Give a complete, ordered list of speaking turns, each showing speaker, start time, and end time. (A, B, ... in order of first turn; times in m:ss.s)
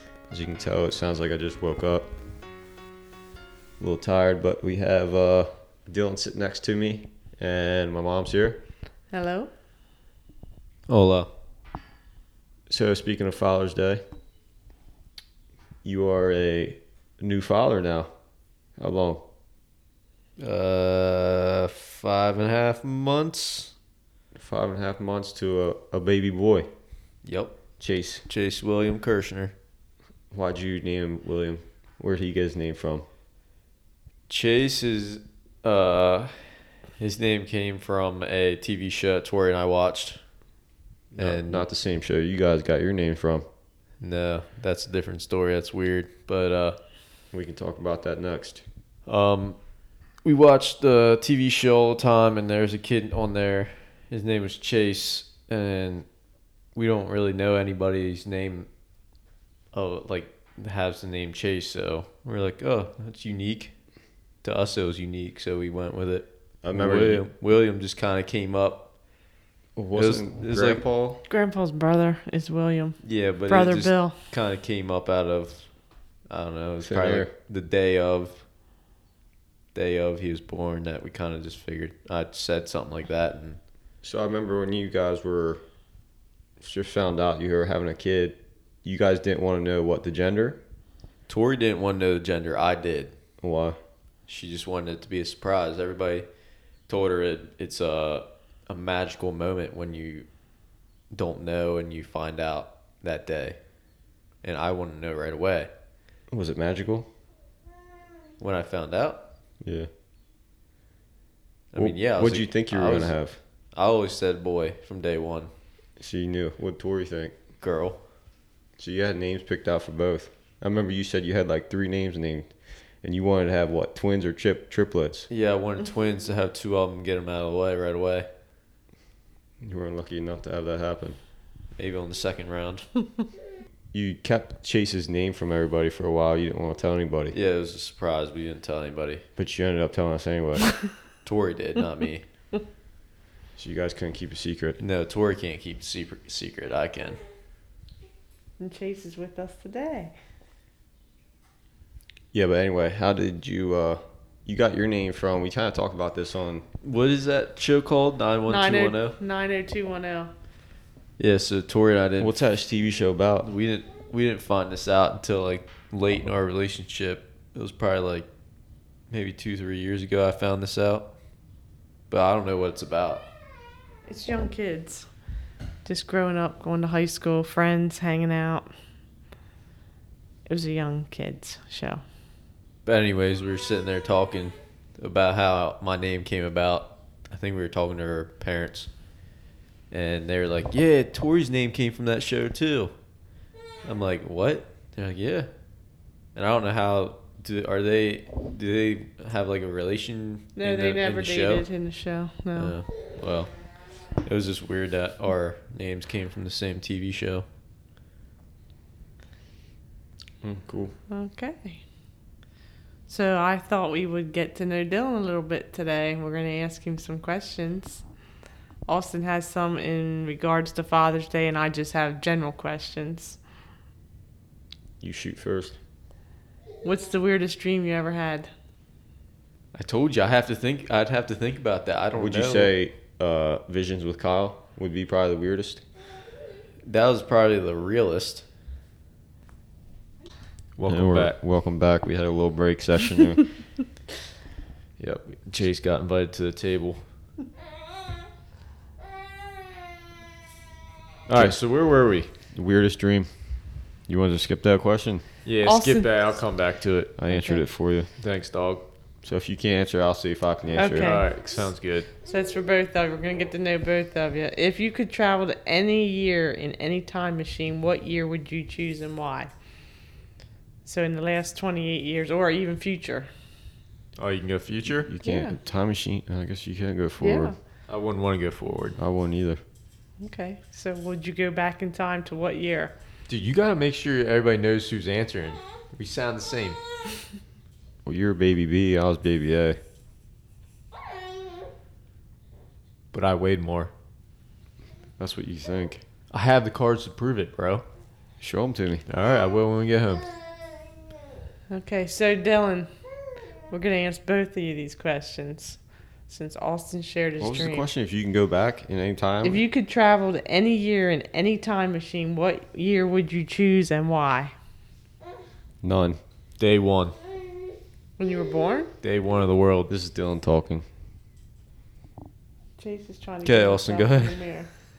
0:00.3-0:02.1 A
0:03.8-0:08.6 A
0:09.1-0:09.5 B
0:10.9-0:11.3 C
0:12.7-0:14.0 A
0:15.8-0:18.1 A
0:18.8-0:19.2 A
0:20.4-0:23.7 C
0:24.3-0:26.7 A
0:27.2-0:27.6 C
0:27.8-0:28.2 A
0:28.3-0:29.5 C
0:30.3-0:33.1 A
0:34.3-0:36.5 C
0:37.0-0:40.2 C
0:41.1-0:41.7 C
0:41.2-0:43.4 A
0:44.0-0:46.8 C
0:47.3-0:48.6 A
0:49.1-0:49.6 C
0:50.2-0:56.1 C
0:56.8-0:58.7 C
0:59.7-1:03.7 C
1:04.4-1:08.9 C
1:06.6-1:07.2 A
1:09.8-1:11.2 A
1:10.0-1:10.8 C
1:11.3-1:13.0 B
1:13.0-1:15.7 C
1:13.5-1:14.2 B
1:16.3-1:18.4 C
1:16.8-1:17.3 A
1:19.7-1:23.6 C
1:24.0-1:25.6 A
1:26.6-1:30.6 A
1:31.3-1:33.1 C
1:33.4-1:33.8 A
1:34.3-1:36.3 C
1:36.9-1:40.3 C
1:41.1-1:43.6 C
1:44.4-1:45.7 C
1:46.3-1:47.1 A
1:48.4-1:49.2 C
1:49.6-1:49.9 A
1:51.7-1:53.2 C
1:51.8-1:53.4 A
1:53.8-1:55.5 C
1:56.0-1:57.4 A
1:57.6-1:58.0 C
1:58.8-2:05.3 A
2:05.3-2:08.3 C
2:09.6-2:11.2 A
2:11.8-2:12.9 C
2:13.9-2:17.4 A
2:17.3-2:19.2 C
2:19.4-2:20.7 A
2:21.2-2:22.2 C
2:23.6-2:24.8 A
2:24.8-2:27.2 C
2:28.6-2:30.1 B
2:32.3-2:36.7 A
2:36.8-2:39.2 C
2:38.5-2:40.3 B
2:41.2-2:42.4 C
2:42.2-2:43.5 A
2:43.4-2:48.3 C
2:49.1-2:51.1 C
2:52.1-2:53.2 C
2:54.1-2:55.1 B
2:55.8-2:58.7 B
3:00.5-3:02.0 B
3:02.8-3:08.9 C
3:09.9-3:12.9 C
3:13.8-3:15.5 C
3:16.4-3:21.7 C
3:20.6-3:22.8 B
3:22.6-3:23.5 C
3:24.2-3:27.4 C
3:30.4-3:30.9 A
3:31.1-3:31.8 B
3:33.1-3:38.0 B
3:38.9-3:43.4 B
3:45.0-3:45.8 A
3:46.8-3:48.5 B
3:49.7-3:52.7 C
3:52.1-3:55.8 A
3:56.8-3:58.4 C
4:00.8-4:01.4 C
4:00.9-4:03.5 A
4:05.0-4:07.0 C
4:11.3-4:12.3 C
4:11.3-4:11.6 A
4:12.5-4:13.3 A
4:14.1-4:15.2 A
4:15.4-4:17.1 C
4:15.6-4:16.1 B
4:17.2-4:18.1 A
4:17.3-4:17.6 B
4:18.2-4:18.8 C
4:19.2-4:21.2 A
4:20.8-4:21.3 B
4:21.0-4:22.1 C
4:22.2-4:29.5 B
4:30.8-4:33.3 B
4:34.2-4:35.1 C
4:35.1-4:37.5 A
4:35.2-4:35.6 B
4:37.2-4:37.6 B
4:37.9-4:39.0 C
4:39.0-4:39.6 A
4:40.2-4:42.9 B
4:43.3-4:46.8 C
4:48.1-4:49.8 A
4:53.1-4:53.9 C
4:55.2-4:56.0 A
4:56.3-4:57.8 C
4:58.4-4:59.0 A
4:59.1-5:00.3 C
5:01.7-5:02.9 B
5:03.7-5:07.9 B
5:07.4-5:09.6 A
5:09.4-5:14.6 B
5:15.8-5:16.2 A
5:16.6-5:17.2 C
5:18.2-5:18.9 B
5:19.0-5:19.9 C
5:19.9-5:20.9 A
5:22.8-5:24.7 B
5:23.4-5:24.4 C